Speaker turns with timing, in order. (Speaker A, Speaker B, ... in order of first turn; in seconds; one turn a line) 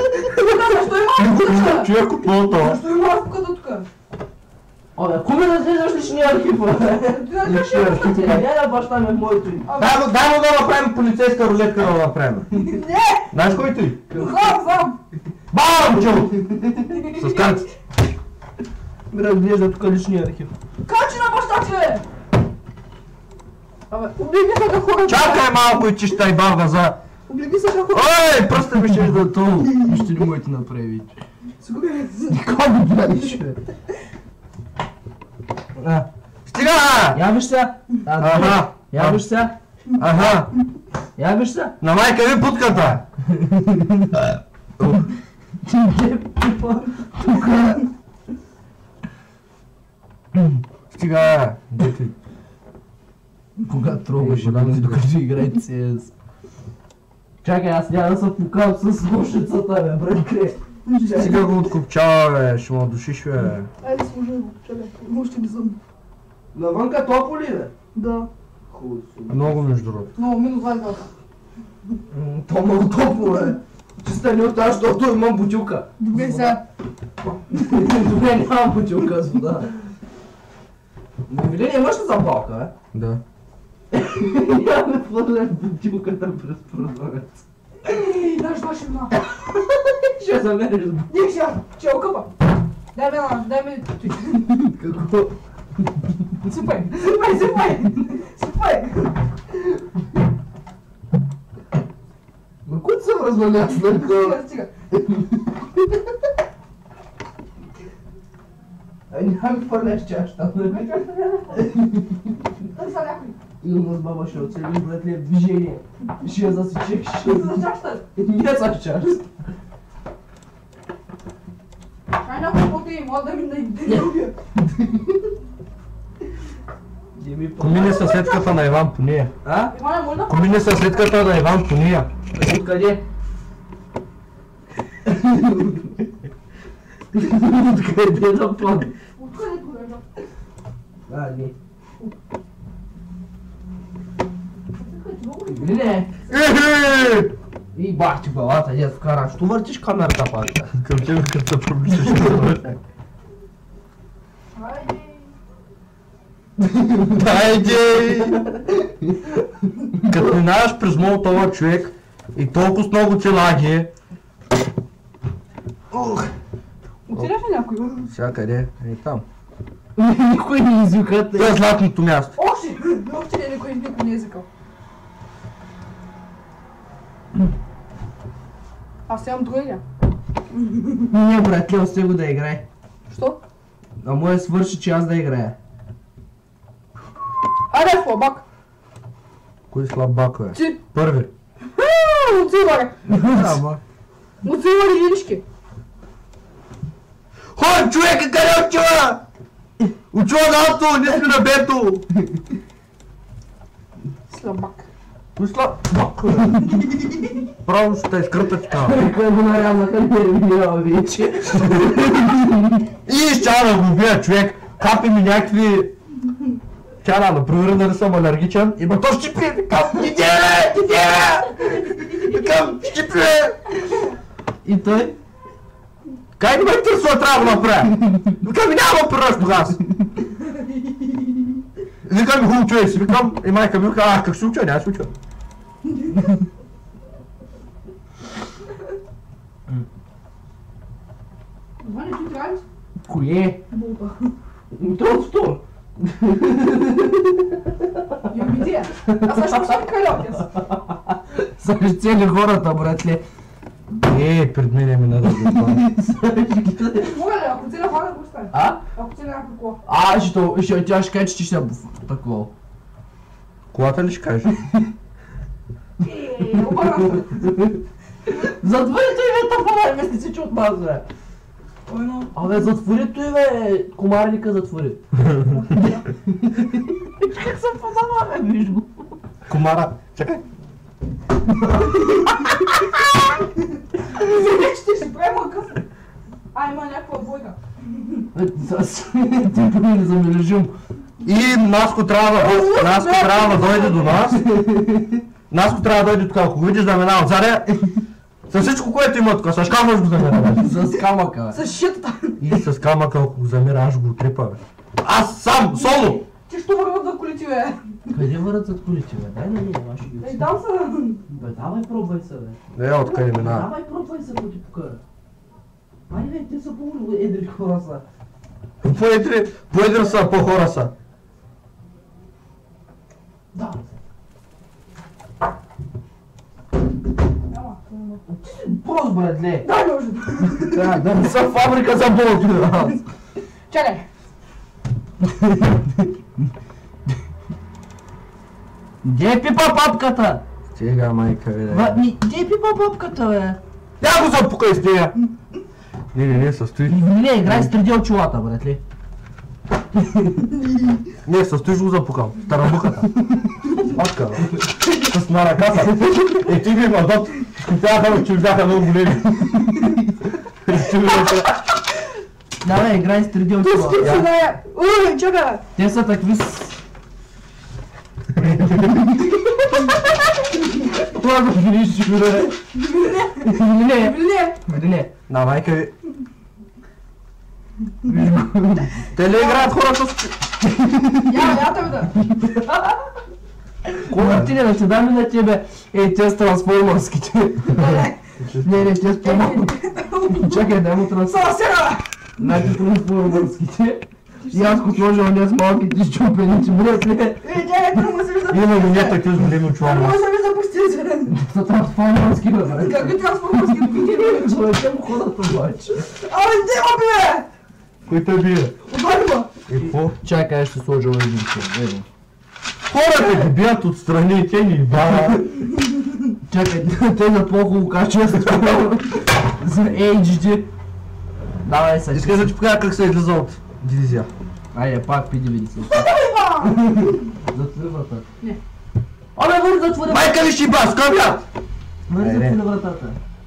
Speaker A: 0.2-1.9
Speaker B: 1.1-2.8
Speaker A: 2.5-3.9
Speaker C: 5.0-9.7
Speaker A: 7.0-8.1
Speaker B: 7.4-8.5
Speaker A: 9.7-10.1
Speaker B: 9.8-12.5
Speaker A: 12.5-13.3
Speaker B: 13.3-14.0
Speaker C: 14.1-14.5
Speaker A: 14.1-15.0
Speaker B: 15.5-16.3
Speaker C: 16.3-17.0
Speaker A: 16.9-17.7
Speaker B: 17.1-17.7
Speaker C: 19.1-20.5
Speaker A: 20.8-22.0
Speaker A: 23.9-25.4
Speaker B: 25.0-27.0
Speaker A: 27.3-28.1
Speaker B: 27.9-29.3
Speaker C: 28.8-31.1
Speaker A: 31.6-32.4
Speaker C: 32.3-33.6
Speaker C: 35.8-36.1
Speaker B: 36.5-37.2
Speaker C: 37.1-39.5
Speaker B: 38.2-39.3
Speaker B: 40.0-40.5
Speaker C: 41.2-41.7
Speaker B: 41.8-43.0
Speaker C: 43.2-44.2
Speaker B: 44.8-45.0
Speaker C: 45.6-47.9
Speaker B: 50.9-52.1
Speaker C: 53.6-56.1
Speaker B: 54.1-55.0
Speaker C: 57.4-61.2
Speaker A: 60.9-61.6
Speaker B: 61.1-63.7
Speaker A: 63.8-65.8
Speaker C: 66.5-67.7
Speaker A: 67.9-68.3
Speaker C: 68.7-69.8
Speaker B: 69.3-70.1
Speaker A: 70.2-71.1
Speaker C: 72.1-76.6
Speaker A: 76.0-76.6
Speaker C: 77.2-79.8
Speaker C: 81.3-82.7
Speaker B: 82.9-83.2
Speaker C: 83.9-87.4
Speaker A: 87.8-89.1
Speaker C: 89.3-91.1
Speaker A: 91.1-92.3
Speaker A: 92.9-94.4
Speaker C: 94.4-95.3
Speaker A: 96.4-99.1
Speaker C: 102.7-104.4
Speaker A: 103.7-104.7
Speaker C: 104.9-105.9
Speaker C: 109.1-112.5
Speaker A: 110.6-111.6
Speaker A: 112.7-113.4
Speaker C: 113.6-119.3
Speaker A: 117.2-118.0
Speaker A: 122.2-124.3
Speaker C: 123.8-125.2
Speaker C: 127.1-128.2
Speaker B: 127.6-129.3
Speaker A: 127.7-128.5
Speaker C: 129.4-129.7
Speaker A: 129.7-131.2
Speaker B: 130.3-132.1
Speaker C: 132.3-133.0
Speaker C: 135.0-136.1
Speaker C: 137.1-138.9
Speaker A: 139.2-140.0
Speaker C: 141.1-141.5
Speaker A: 144.7-146.4
Speaker C: 145.5-146.1
Speaker B: 146.3-147.3
Speaker C: 147.7-150.7
Speaker B: 150.7-152.8
Speaker A: 154.5-155.3
Speaker C: 156.6-160.3
Speaker B: 157.1-158.4
Speaker B: 160.1-163.9
Speaker C: 165.9-166.3
Speaker A: 167.1-168.1
Speaker B: 168.0-169.2
Speaker C: 169.9-171.6
Speaker B: 171.3-172.4
Speaker A: 172.4-174.4
Speaker A: 179.1-179.8
Speaker A: 180.5-181.1
Speaker C: 181.1-182.6
Speaker A: 183.1-183.4
Speaker C: 184.0-185.6
Speaker A: 187.7-188.4
Speaker B: 189.7-191.3
Speaker A: 190.5-190.8
Speaker A: 191.7-192.9
Speaker C: 193.1-193.6
Speaker B: 193.2-193.8
Speaker A: 194.4-195.4
Speaker B: 197.5-199.2
Speaker B: 200.1-202.0
Speaker A: 204.3-204.8
Speaker B: 205.3-206.8
Speaker A: 206.7-207.3
Speaker B: 207.6-209.0
Speaker C: 208.7-212.8
Speaker B: 211.6-212.0
Speaker B: 213.1-215.9
Speaker B: 217.0-223.7
Speaker C: 224.6-225.2
Speaker B: 226.4-229.8
Speaker A: 230.4-231.3
Speaker B: 232.0-235.1
Speaker A: 241.8-242.6
Speaker C: 243.1-243.6
Speaker A: 243.7-244.3
Speaker C: 244.7-248.3
Speaker A: 248.3-250.5
Speaker C: 249.0-249.8
Speaker C: 250.5-253.2
Speaker B: 254.0-255.8
Speaker C: 255.4-257.1
Speaker A: 257.0-259.8
Speaker C: 258.5-258.8
Speaker C: 259.8-262.5
Speaker B: 263.7-264.6
Speaker A: 266.0-267.3
Speaker C: 266.1-271.0
Speaker A: 271.9-272.6
Speaker C: 272.3-275.0
Speaker B: 275.1-275.6
Speaker A: 275.5-276.1
Speaker C: 276.3-279.1
Speaker B: 279.5-280.4
Speaker A: 284.1-285.8
Speaker A: 286.5-288.2
Speaker C: 288.3-290.7
Speaker B: 291.2-294.4
Speaker A: 292.3-294.2
Speaker C: 294.2-295.2
Speaker B: 295.5-297.7
Speaker B: 298.5-300.6
Speaker C: 300.6-301.6
Speaker A: 301.5-302.4
Speaker B: 302.4-306.2
Speaker A: 305.8-308.1
Speaker C: 308.1-310.5
Speaker A: 310.2-311.2
Speaker C: 311.3-315.0
Speaker B: 312.7-313.7
Speaker C: 316.1-318.0
Speaker B: 318.8-320.9
Speaker C: 323.5-324.0
Speaker A: 327.5-328.2
Speaker C: 328.3-329.7
Speaker A: 329.6-331.0
Speaker C: 330.6-333.0
Speaker A: 333.7-334.1
Speaker C: 335.2-336.1
Speaker C: 339.0-340.4
Speaker B: 340.7-342.0
Speaker C: 341.7-343.6
Speaker B: 344.0-345.1
Speaker B: 346.1-347.7
Speaker C: 346.9-348.8
Speaker C: 349.9-350.4
Speaker B: 351.2-353.1
Speaker B: 353.8-359.9
Speaker C: 354.4-354.8
Speaker C: 355.8-356.5
Speaker B: 360.6-361.5
Speaker C: 362.6-364.1
Speaker A: 363.6-365.6
Speaker B: 364.0-364.3
Speaker C: 365.8-366.8
Speaker B: 368.3-369.0
Speaker C: 368.4-369.2
Speaker C: 370.7-372.6
Speaker A: 372.7-374.6
Speaker C: 373.4-375.1
Speaker B: 375.3-375.9
Speaker C: 378.0-378.9
Speaker B: 379.1-380.4
Speaker A: 379.2-379.7
Speaker C: 380.6-381.5
Speaker A: 381.2-382.1
Speaker C: 382.1-382.6
Speaker A: 382.6-383.0
Speaker C: 384.0-388.1
Speaker B: 384.1-384.5
Speaker A: 387.7-388.1
Speaker B: 388.4-388.9
Speaker C: 388.6-389.7
Speaker A: 389.2-392.1
Speaker C: 390.3-391.5
Speaker C: 392.4-397.4
Speaker A: 394.4-395.0
Speaker A: 397.4-401.4
Speaker B: 398.5-400.2
Speaker C: 401.3-406.1
Speaker A: 402.8-404.6
Speaker A: 406.1-407.5
Speaker B: 408.1-408.8
Speaker A: 408.9-409.5
Speaker B: 409.7-410.1
Speaker C: 409.8-412.1
Speaker B: 412.9-415.5
Speaker C: 416.4-420.7
Speaker C: 421.6-422.5
Speaker B: 422.1-424.3
Speaker C: 424.7-426.1
Speaker A: 425.8-426.8
Speaker C: 426.6-428.2
Speaker C: 429.4-430.4
Speaker B: 430.1-431.4
Speaker C: 432.1-433.2
Speaker B: 432.2-432.6